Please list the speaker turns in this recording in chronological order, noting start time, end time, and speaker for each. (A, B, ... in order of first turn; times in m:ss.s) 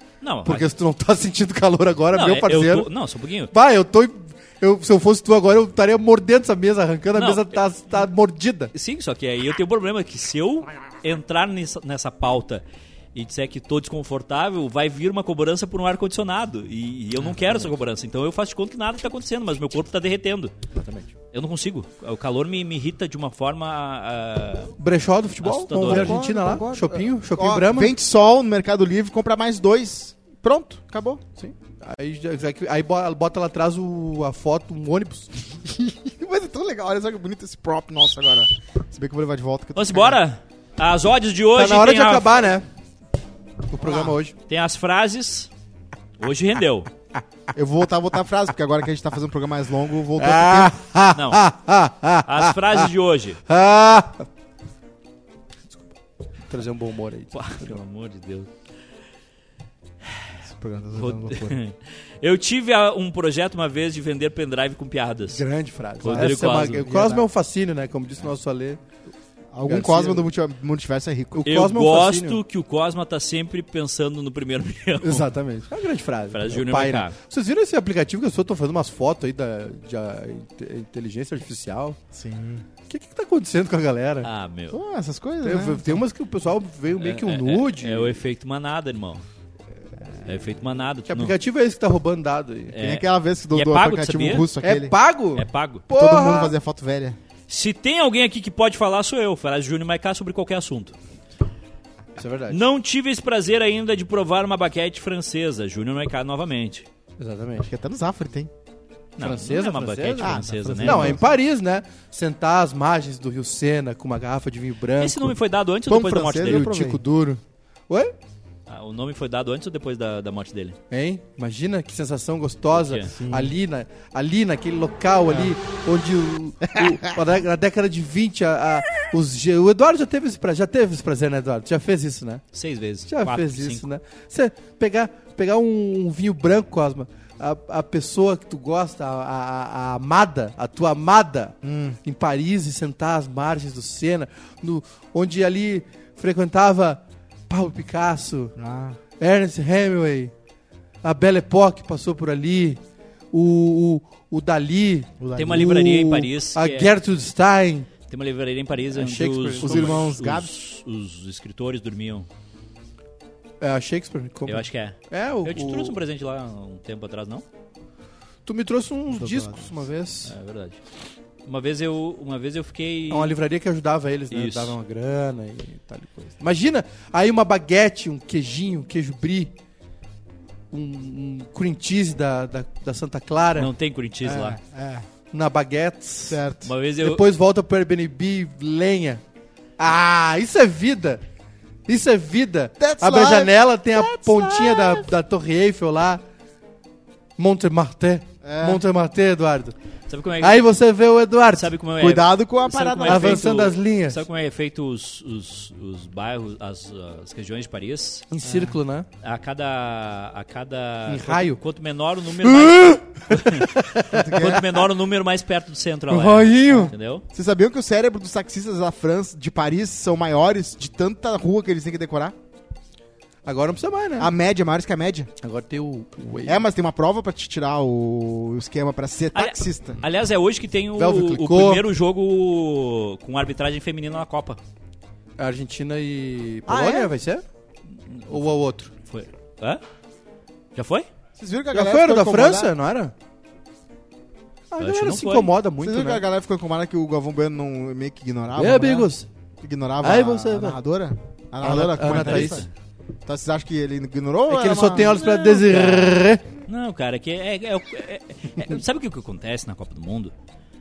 0:00.2-0:00.7 A
0:00.4-0:02.9 B
0:02.1-0:03.5 A
0:03.5-0:08.7 B
0:07.1-0:07.4 A
0:08.7-0:20.5 A
0:17.3-0:17.7 B
0:20.7-0:21.1 B
0:21.3-0:24.7 A
0:24.8-0:27.9 B
0:25.4-0:26.2 A
0:25.8-0:31.2 C
0:31.4-0:35.4 B
0:35.6-0:40.2 C
0:39.8-0:42.4 A
0:41.5-0:42.6 B
0:43.7-0:44.3 B
0:43.8-0:44.1 C
0:44.5-0:45.5 A
0:46.2-0:46.9 A
0:47.5-0:50.8 C
0:50.2-0:52.9 B
0:51.1-0:51.4 A
0:52.2-0:53.4 A
0:53.5-0:54.3 B
0:56.5-0:57.8 B
0:57.3-0:58.5 A
1:00.5-1:01.6 C
1:01.0-1:05.4 A
1:05.3-1:08.8 B
1:06.0-1:06.9 A
1:06.1-1:07.2 C
1:09.5-1:11.5 C
1:09.7-1:10.2 B
1:11.4-1:12.4 B
1:11.4-1:15.3 A
1:15.0-1:22.0 B
1:16.3-1:17.2 A
1:22.1-1:22.6 C
1:22.9-1:24.3 B
1:24.2-1:24.8 A
1:24.7-1:26.0 C
1:25.4-1:28.2 B
1:27.0-1:29.2 A
1:30.2-1:31.3 A
1:31.1-1:32.7 B
1:32.7-1:34.5 A
1:32.8-1:35.0 C
1:34.6-1:36.5 B
1:35.3-1:35.8 A
1:35.9-1:37.2 C
1:37.5-1:41.0 A
1:42.2-1:42.6 B
1:42.5-1:46.9 A
1:47.2-1:47.7 B
1:47.6-1:48.5 C
1:49.2-1:51.2 A
1:49.2-1:55.4 B
1:50.2-1:51.3 C
1:55.0-1:56.7 A
1:55.9-1:57.0 C
1:56.4-1:58.1 B
1:58.7-2:00.8 A
2:00.9-2:12.4 B
2:02.7-2:03.1 A
2:03.1-2:03.5 C
2:12.5-2:13.9 A
2:13.1-2:28.5 B
2:21.6-2:22.0 C
2:28.6-2:29.0 C
2:29.2-2:30.3 B
2:31.0-2:37.9 B
2:35.2-2:35.7 C
2:35.4-2:36.9 A
2:38.1-2:42.3 A
2:38.9-2:40.1 B
2:39.6-2:40.5 C
2:43.6-2:46.0 B
2:44.4-2:47.4 A
2:48.4-2:50.3 B
2:49.1-2:49.7 C
2:50.2-2:50.8 A
2:51.4-2:53.4 A
2:53.1-2:59.5 B
2:54.3-2:54.7 A
3:00.7-3:03.7 B
3:03.6-3:04.6 A
3:04.2-3:05.0 C
3:05.3-3:06.4 B
3:06.3-3:06.7 C
3:06.6-3:07.2 A
3:07.0-3:09.2 B
3:09.8-3:11.2 B
3:11.9-3:16.2 B
3:12.8-3:15.1 C
3:17.4-3:19.7 B
3:18.4-3:18.8 C
3:20.1-3:20.6 A
3:20.4-3:21.7 B
3:21.5-3:28.2 A
3:22.0-3:23.5 C
3:23.0-3:24.2 B
3:28.3-3:29.1 B
3:28.4-3:28.8 C
3:29.2-3:37.2 A
3:31.1-3:31.6 B
3:32.4-3:34.6 B
3:34.1-3:34.7 C
3:36.1-3:36.9 B
3:36.6-3:42.3 C
3:43.4-3:44.3 B
3:44.2-3:45.3 C
3:45.4-3:46.6 B
3:46.4-3:50.0 C
3:49.3-3:54.6 A
3:50.9-3:51.8 B
3:55.4-3:57.4 B
3:56.6-3:57.1 C
3:58.3-3:58.9 B
3:59.0-3:59.8 A
4:00.7-4:01.1 A
4:01.4-4:02.7 C
4:01.7-4:03.1 B
4:04.7-4:06.2 B
4:04.8-4:05.5 A
4:05.8-4:09.1 C
4:08.6-4:09.3 B
4:09.6-4:12.6 C
4:10.0-4:10.8 B
4:11.6-4:12.6 B
4:12.1-4:12.7 A
4:13.2-4:15.2 C
4:14.5-4:16.4 B
4:15.0-4:20.3 A